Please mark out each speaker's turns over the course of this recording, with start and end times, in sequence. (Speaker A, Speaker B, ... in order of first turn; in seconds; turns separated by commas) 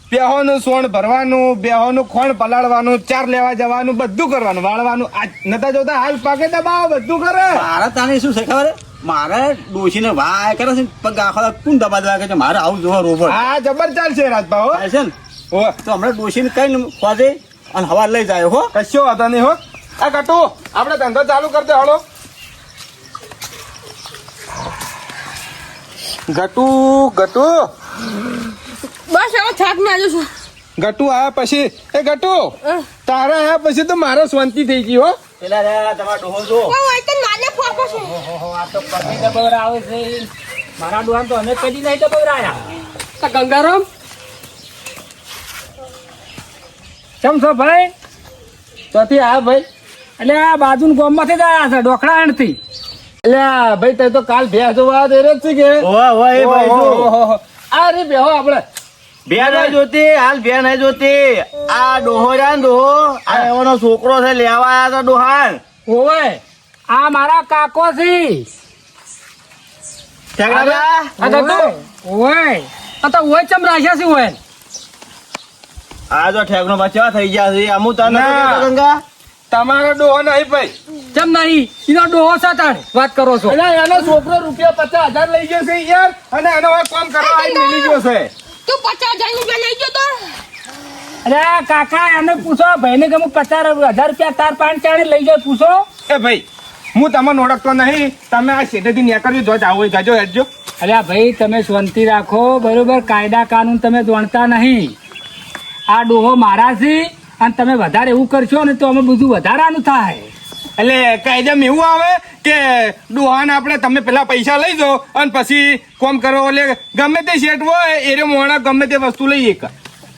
Speaker A: 0.1-7.7, Speaker B: 7.5-13.4, Speaker A: 13.3-14.8, Speaker B: 14.7-15.1, Speaker B: 15.8-18.7, Speaker A: 18.7-22.0, Speaker A: 26.3-27.7, Speaker C: 29.1-30.3, Speaker A: 30.8-35.2, Speaker D: 35.4-36.8, Speaker C: 36.7-38.1, Speaker E: 38.0-42.6, Speaker F: 43.2-43.9, Speaker E: 47.2-47.9, Speaker A: 48.9-49.6, Speaker E: 50.2-52.6, Speaker A: 53.2-58.6, Speaker D: 55.8-57.1, Speaker D: 59.3-65.6, Speaker A: 59.4-59.8, Speaker F: 65.9-66.4, Speaker E: 66.9-68.5, Speaker D: 70.4-71.1, Speaker A: 70.5-70.8, Speaker E: 71.2-72.7, Speaker F: 71.2-71.7, Speaker F: 73.0-74.4, Speaker D: 76.1-79.0, Speaker A: 78.0-78.7, Speaker A: 79.5-80.7, Speaker F: 81.1-83.6, Speaker A: 83.5-88.3, Speaker C: 87.2-88.0, Speaker C: 88.7-90.1, Speaker E: 91.2-95.8, Speaker A: 96.1-100.5, Speaker E: 100.8-104.9, Speaker E: 105.9-110.3, Speaker A: 110.8-119.7